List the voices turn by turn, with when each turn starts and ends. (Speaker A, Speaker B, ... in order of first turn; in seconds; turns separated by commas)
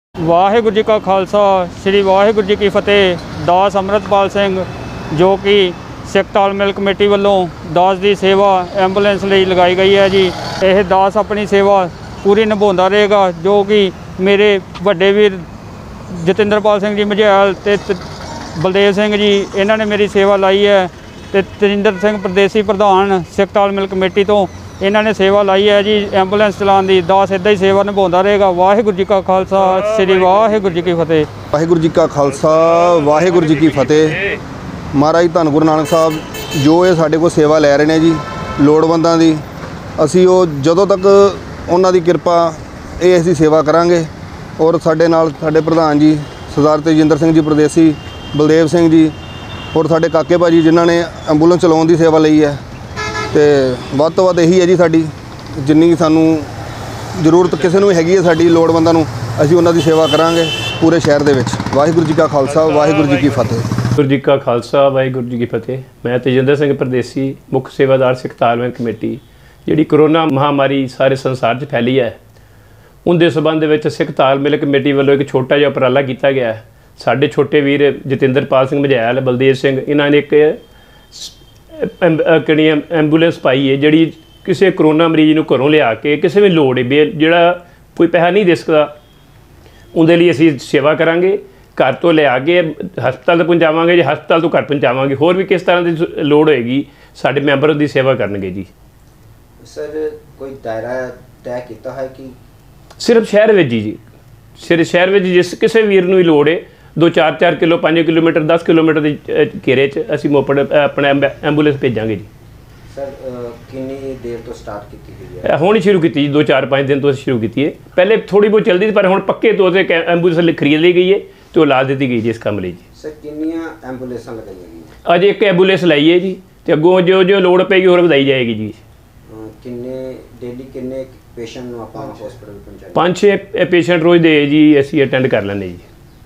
Speaker A: 0.2-15.5, Speaker A: 16.1-18.0, Speaker A: 18.6-31.3, Speaker B: 29.7-30.7, Speaker C: 31.5-34.2, Speaker B: 32.5-34.4, Speaker C: 34.9-39.4, Speaker C: 40.0-49.1, Speaker C: 49.7-52.6, Speaker C: 53.3-56.5, Speaker C: 57.1-63.7, Speaker B: 62.8-63.1, Speaker B: 64.0-72.2, Speaker B: 73.0-80.6, Speaker B: 81.1-88.9, Speaker B: 89.9-98.7, Speaker D: 99.6-102.4, Speaker B: 103.0-104.0, Speaker B: 104.6-112.3, Speaker D: 112.9-115.5, Speaker B: 115.4-122.8, Speaker D: 123.0-124.9, Speaker B: 125.0-128.8, Speaker D: 129.3-133.1, Speaker B: 132.9-135.9